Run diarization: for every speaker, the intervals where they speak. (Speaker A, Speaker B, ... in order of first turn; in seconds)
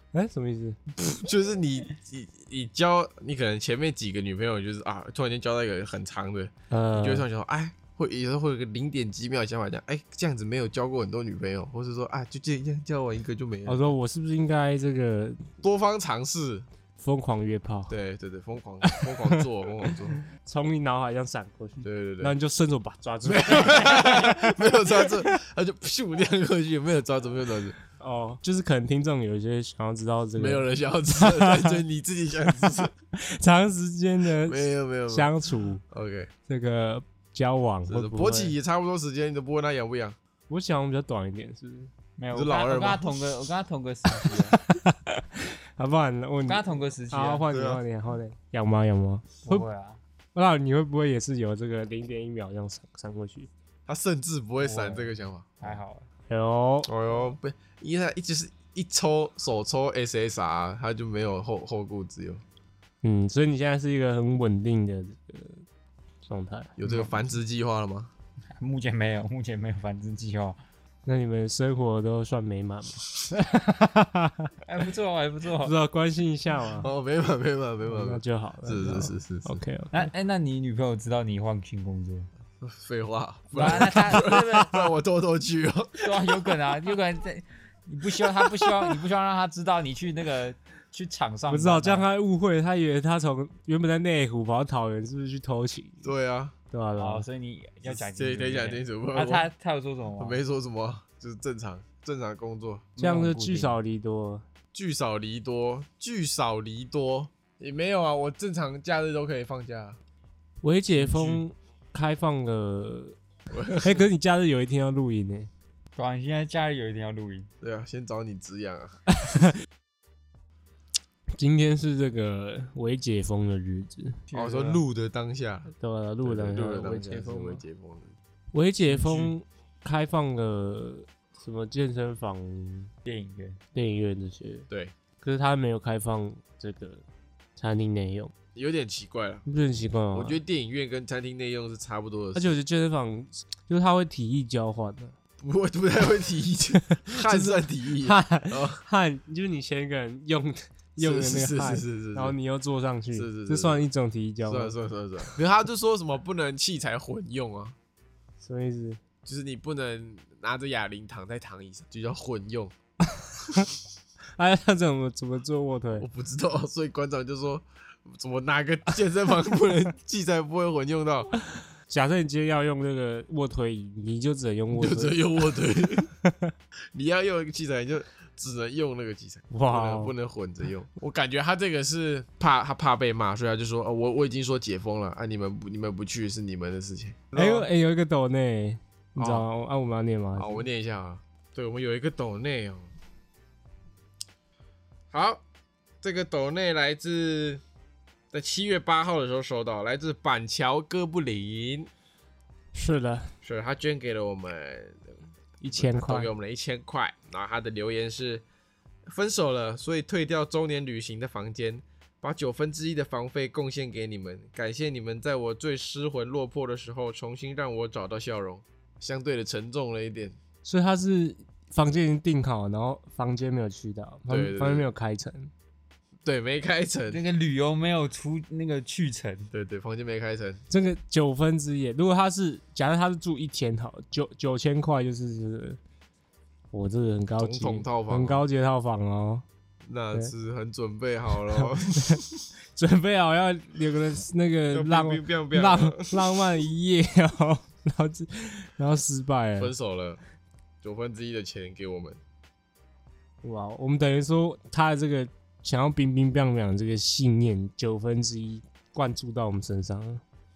Speaker A: 0.1-0.8, 6.7-7.2, 13.7-15.5, 17.0-17.9, 18.8-19.4, 20.3-25.4, 27.9-31.8, 32.6-35.8, 36.5-38.5, 40.5-41.9, 44.1-49.7, 50.3-53.5, 56.3-56.9, 63.0-65.6, 66.2-66.7, 71.0-74.5, 75.6-76.9, 77.8-80.1, 83.7-84.4, 91.5-96.1, 96.7-97.2, 103.0-104.4, 110.6-113.2, 113.8-115.5, 119.2-119.5, 121.4-124.2, 125.8-127.6, 128.5-132.9, 133.7-134.7, 135.2-137.0, 137.6-138.3, 139.4-140.4, 142.3-145.1, 147.1-155.3, 158.4-159.0, 163.1-163.7, 164.4-166.1, 171.9-175.2, 176.2-176.5, 179.5-180.1, 187.3-190.7, 202.7-203.3, 205.6-206.3, 220.6-225.5, 230.7-235.8, 236.7-239.4, 241.3-242.2, 242.7-249.7, 253.4-260.2
Speaker B: 0.9-13.9, 15.6-16.6, 17.9-20.2, 21.8-22.4, 23.2-27.8, 30.4-32.9, 34.4-35.3, 35.9-36.3, 37.9-40.2, 42.3-43.2, 47.5-47.8, 53.9-55.8, 56.9-62.4, 66.8-68.1, 76.8-79.6, 82.6-86.1, 96.0-96.5, 97.8-99.5, 100.2-102.9, 104.7-110.0, 111.0-111.4, 113.5-114.0, 117.6-119.0, 124.3-125.7, 126.2-128.1, 138.5-139.4, 140.1-142.5, 145.4-148.8, 151.0-152.3, 153.1-153.8, 154.5-157.7, 159.2-162.7, 166.0-171.4, 174.7-176.1, 176.9-187.7, 189.2-189.4, 190.3-192.9, 195.1-195.4, 196.0-197.6, 198.3-201.9, 203.4-205.1, 205.7-208.4, 209.1-220.3, 224.3-224.8, 226.2-227.2, 229.5-230.6, 237.4-238.4, 239.9-242.4, 244.7-246.4, 249.6-250.2, 250.8-252.2
Speaker C: 42.2-44.6, 46.5-47.5, 49.4-50.0, 54.6-56.1, 66.8-67.1, 68.5-70.6, 74.7-75.7, 79.9-82.3, 83.5-84.9, 86.0-92.0, 97.0-100.4, 103.0-103.8, 115.9-117.5, 124.3-124.8, 133.0-133.6, 227.1-229.5